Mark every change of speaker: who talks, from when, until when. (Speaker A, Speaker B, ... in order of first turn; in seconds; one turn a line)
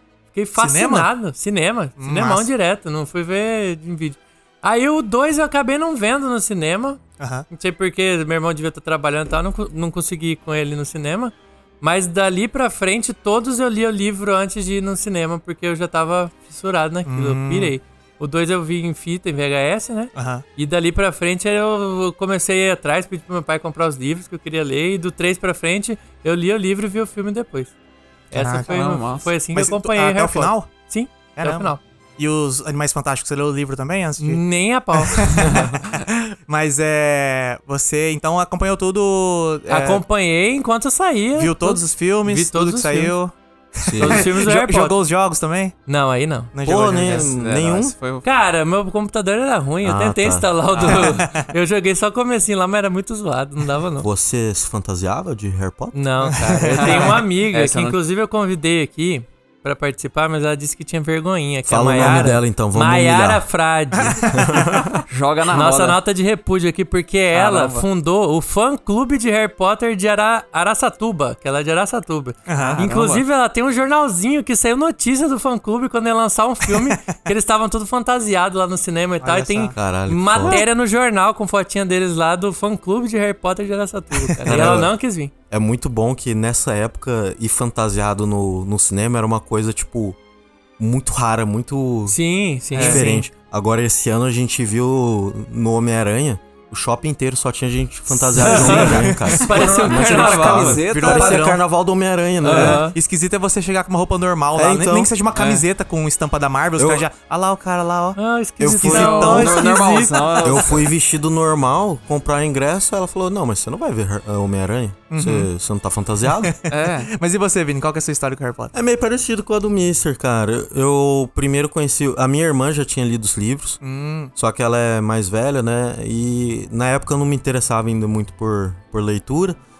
Speaker A: 0.3-27.7
Speaker B: 0.6-1.1
Speaker B: 2.0-2.5
Speaker B: 7.2-7.5
Speaker B: 17.1-17.7
Speaker B: 20.1-20.4
Speaker A: 28.3-31.8
Speaker B: 28.3-28.9
Speaker C: 28.6-29.3
Speaker B: 29.5-30.7
Speaker B: 31.4-34.4
Speaker A: 34.2-35.7
Speaker B: 34.9-40.0
Speaker A: 39.7-43.1
Speaker B: 41.3-45.7
Speaker D: 43.8-44.3
Speaker A: 44.0-44.9
Speaker A: 45.9-46.5
Speaker B: 46.5-47.3
Speaker D: 46.6-47.9
Speaker C: 47.0-48.2
Speaker A: 48.2-54.1
Speaker D: 49.8-50.5
Speaker C: 50.7-51.2
Speaker B: 50.9-51.5
Speaker D: 54.0-56.0
Speaker A: 55.9-64.4
Speaker B: 56.2-57.1
Speaker C: 56.7-58.0
Speaker D: 61.6-63.5
Speaker B: 63.9-65.0
Speaker D: 64.0-64.9
Speaker C: 65.1-66.0
Speaker A: 65.5-85.3
Speaker C: 67.3-67.9
Speaker B: 72.5-72.8
Speaker C: 72.8-73.2
Speaker B: 79.2-79.8
Speaker D: 79.7-80.6
Speaker C: 84.4-84.8
Speaker D: 84.4-84.9
Speaker D: 85.5-90.2
Speaker D: 90.8-92.2
Speaker A: 92.1-93.1
Speaker B: 92.7-93.2
Speaker D: 92.7-102.9
Speaker B: 98.3-101.6
Speaker A: 98.4-100.8
Speaker C: 98.6-98.9
Speaker C: 99.5-101.5
Speaker A: 102.4-103.0
Speaker B: 102.4-109.9
Speaker D: 104.5-105.1
Speaker C: 105.3-105.6
Speaker D: 106.8-107.0
Speaker A: 108.2-110.6
Speaker D: 108.6-109.5
Speaker C: 108.9-110.8
Speaker D: 110.4-116.6
Speaker B: 115.1-115.5
Speaker B: 116.4-118.7
Speaker C: 116.7-117.1
Speaker D: 118.7-123.8
Speaker B: 123.8-124.3
Speaker D: 124.3-129.6